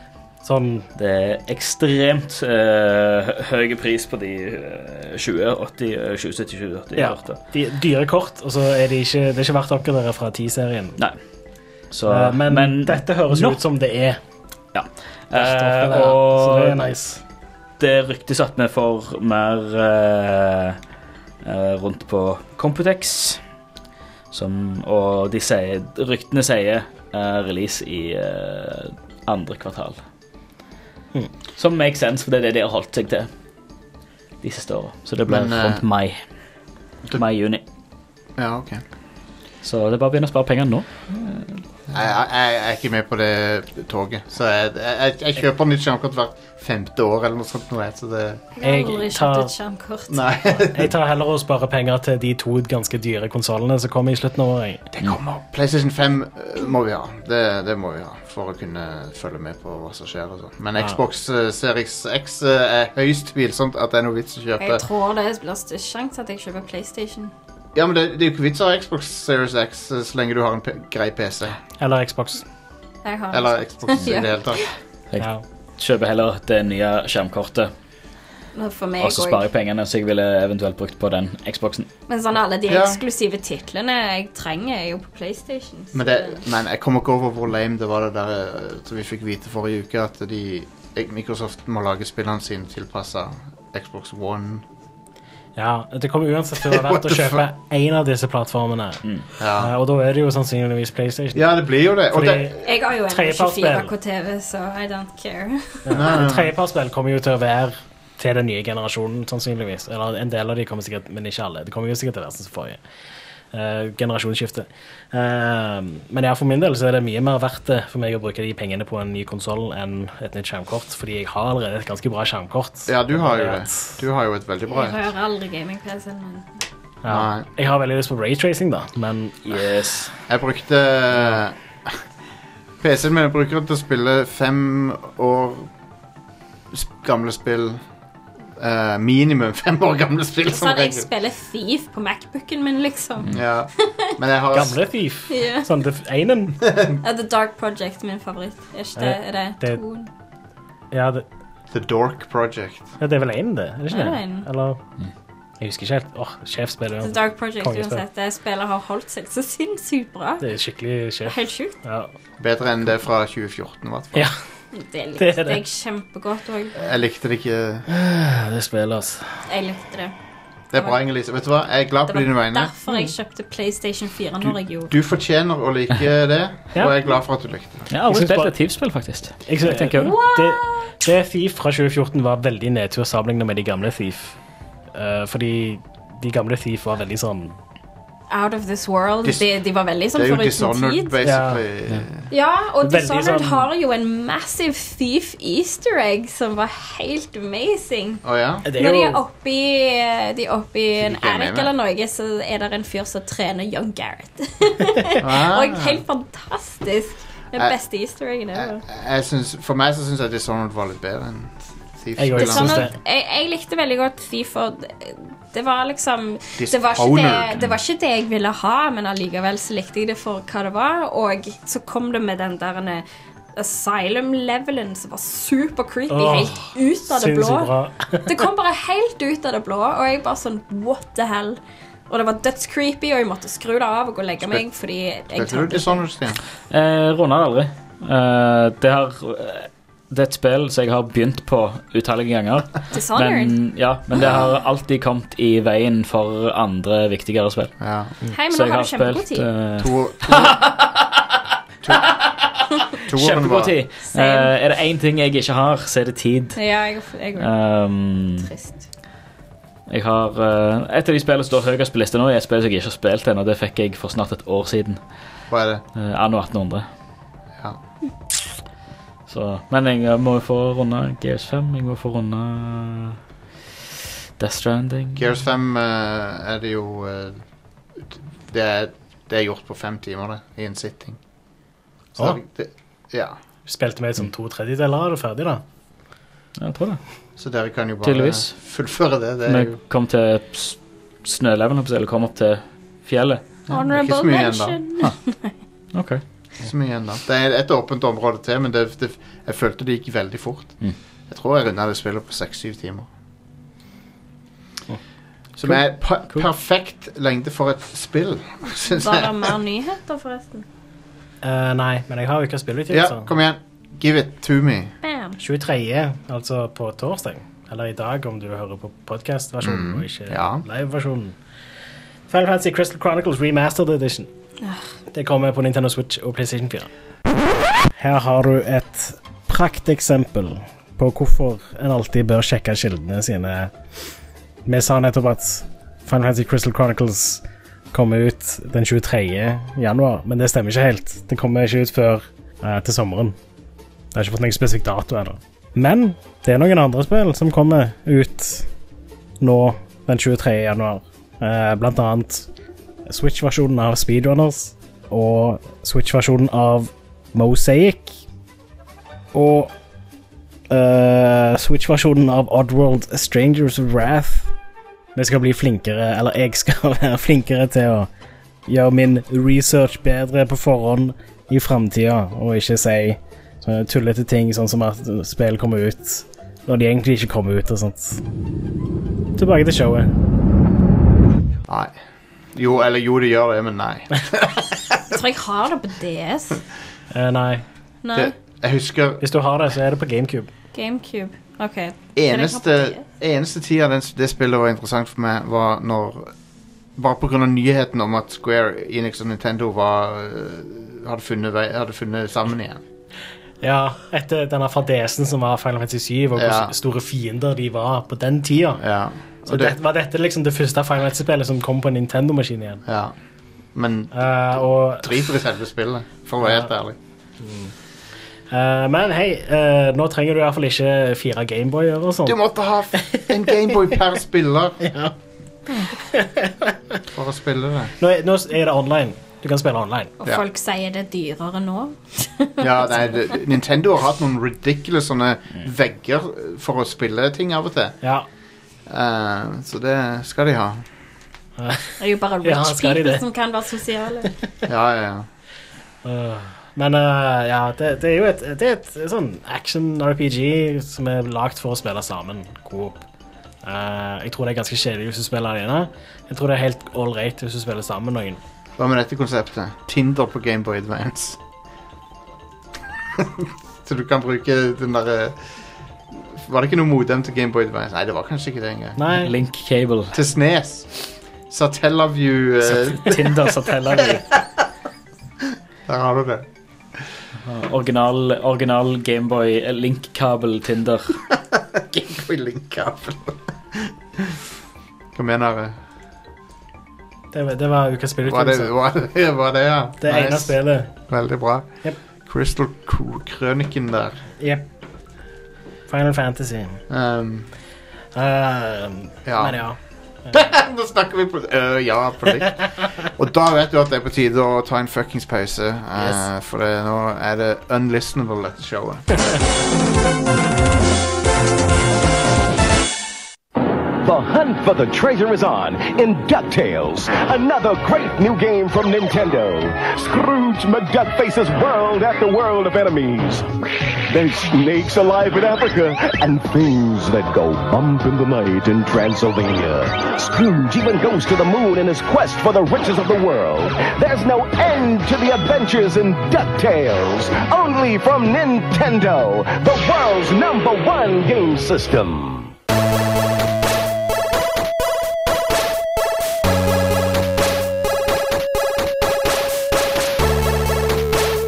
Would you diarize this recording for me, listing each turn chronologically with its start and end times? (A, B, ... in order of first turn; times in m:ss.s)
0:00.4-0:00.9 A
0:01.0-0:07.4 B
0:07.0-0:11.0 A
0:11.9-0:13.6 B
0:12.1-0:14.2 A
0:14.7-0:16.9 B
0:15.3-0:17.2 A
0:17.8-0:20.8 B
0:21.4-0:23.4 B
0:24.3-0:30.0 B
0:31.6-0:33.3 B
0:34.4-0:36.2 B
0:35.2-0:35.8 C
0:37.1-0:37.6 B
0:38.4-0:38.8 C
0:39.6-0:41.6 B
0:41.9-0:48.4 C
0:48.6-0:50.2 D
0:48.6-0:49.5 A
0:50.1-0:50.9 C
0:50.6-0:54.9 A
0:55.0-1:04.8 C
1:04.6-1:07.3 D
1:07.7-1:11.6 C
1:11.8-1:12.4 A
1:13.0-1:14.6 D
1:13.3-1:14.6 C
1:15.1-1:17.7 B
1:18.5-1:19.4 D
1:19.0-1:21.9 B
1:22.1-1:26.4 D
1:22.7-1:23.0 C
1:25.9-1:34.6 C
1:35.6-1:39.0 A
1:36.6-1:37.4 C
1:39.4-1:39.7 C
1:39.6-1:41.4 A
1:41.3-1:42.6 C
1:42.1-1:42.6 A
1:42.6-1:45.9 D
1:43.1-1:43.9 A
1:45.8-1:52.8 A
1:45.9-1:46.5 C
1:53.5-2:03.8 A
2:02.9-2:05.0 C
2:04.7-2:06.5 D
2:07.0-2:09.4 A
2:07.1-2:07.5 C
2:09.4-2:10.1 B
2:10.3-2:12.0 C
2:12.8-2:15.7 C
2:16.7-2:17.8 C
2:18.6-2:21.1 C
2:20.5-2:23.3 D
2:23.3-2:24.8 C
2:24.5-2:26.6 A
2:25.3-2:25.7 D
2:26.7-2:27.0 C
2:27.0-2:30.1 D
2:29.0-2:29.8 A
2:30.9-2:31.2 A
2:31.7-2:32.9 C
2:33.0-2:34.8 A
2:33.9-2:34.5 D
2:35.6-2:38.0 A
2:37.0-2:40.5 D
2:40.4-2:42.1 A
2:41.2-2:41.7 D
2:42.4-2:44.3 C
2:44.7-2:46.8 D
2:45.2-2:45.6 A
2:46.8-2:47.8 C
2:47.9-2:49.4 A
2:49.5-2:50.1 D
2:50.7-2:52.7 C
2:50.7-2:51.0 D
2:52.0-2:54.9 D
2:54.4-2:57.9 C
2:57.9-3:00.2 B
2:58.1-2:58.5 A
2:59.4-3:04.4 A
3:00.0-3:00.9 D
3:04.9-3:07.6 A
3:08.3-3:11.1 D
3:10.1-3:12.3 C
3:11.2-3:11.6 A
3:12.3-3:18.2 D
3:12.8-3:13.7 A
3:18.2-3:18.6 C
3:18.6-3:19.2 A
3:18.7-3:28.8 D
3:21.0-3:21.7 C
3:25.2-3:26.0 C
3:28.5-3:32.9 C
3:32.2-3:32.9 A
3:32.4-3:47.7 D
3:36.6-3:37.6 C
3:46.1-3:48.3 A
3:48.2-3:56.0 D
3:55.3-3:56.4 C
3:56.7-4:07.7 B
4:02.9-4:03.6 D
4:04.1-4:04.6 C
4:07.8-4:08.1 C
4:08.3-4:09.5 D
4:08.5-4:11.3 B
4:09.8-4:10.7 C
4:11.8-4:12.1 C
4:11.9-4:16.6 B
4:13.0-4:13.8 C
4:14.1-4:14.5 D
4:16.6-4:17.5 D
4:17.4-4:18.5 B
4:18.4-4:18.8 D
4:19.9-4:25.0 B
4:25.5-4:25.8 C
4:26.0-4:26.8 B
4:29.3-4:33.2 B
4:34.4-4:35.2 B
4:35.1-4:37.4 C
4:38.0-4:41.2 C
4:42.2-4:43.4 C
4:43.6-4:45.6 A
4:46.6-4:47.0 B
4:47.4-4:49.8 C
4:48.0-4:48.6 B
4:49.4-4:53.4 B
4:53.7-4:54.8 C
4:53.7-4:55.5 D
4:55.9-4:56.2 B
4:56.6-5:00.8 C
5:01.3-5:03.1 C
5:05.6-5:09.5 C
5:05.6-5:06.5 B
5:08.8-5:10.6 D
5:11.4-5:13.3 A
5:12.9-5:14.9 C
5:15.0-5:15.4 D
5:15.4-5:21.4 A
5:19.6-5:20.6 C
5:22.3-5:24.3 A
5:25.1-5:26.9 A
5:27.9-5:33.7 A
5:34.6-5:43.4 A
5:44.1-5:48.7 A
5:49.4-5:52.5 A
5:53.1-5:58.2 A
5:59.3-5:59.7 A
6:00.7-6:04.5 A
6:05.1-6:08.1 A
6:08.7-6:18.2 A
6:19.4-6:20.1 A
6:21.7-6:22.0 C
6:22.5-6:25.0 C
6:25.1-6:26.6 D
6:27.1-6:27.6 A
6:28.0-6:28.3 D
6:28.1-6:29.2 C
6:29.2-6:30.5 A
6:30.7-6:33.0 D
6:32.2-6:36.3 C
6:37.0-6:42.8 C
6:43.6-6:48.8 A
6:46.4-6:46.7 C
6:48.8-6:49.7 C
6:49.5-6:52.8 A
6:52.8-6:53.1 C
6:53.7-6:57.0 C
6:54.1-6:55.1 A
6:57.4-6:57.7 A
6:58.5-7:02.4 A
7:02.2-7:04.8 C
7:04.8-7:05.1 A
7:06.0-7:06.8 A
7:07.1-7:07.9 C
7:08.0-7:10.1 A
7:10.2-7:13.3 D
7:12.6-7:18.0 C
7:18.9-7:20.8 C
7:21.6-7:23.2 A
7:22.0-7:24.4 D
7:24.6-7:25.3 C
7:26.0-7:33.0 A
7:33.6-7:38.4 A
7:38.8-7:41.4 C
7:43.2-7:45.4 C
7:46.1-7:49.0 C
7:49.0-7:49.3 A
7:49.2-7:50.2 B
7:50.1-7:53.5 C
7:52.6-7:54.3 B
7:55.8-7:56.4 C
7:57.4-8:01.2 B
8:01.3-8:04.4 C
8:05.1-8:05.7 C
8:07.3-8:08.7 A
8:08.2-8:14.2 C
8:10.0-8:10.9 A
8:15.9-8:16.8 A
8:16.9-8:17.5 C
8:18.1-8:19.8 A
8:19.2-8:19.7 C
8:20.3-8:29.4 C
8:34.0-8:43.5 E
8:44.1-9:02.5 E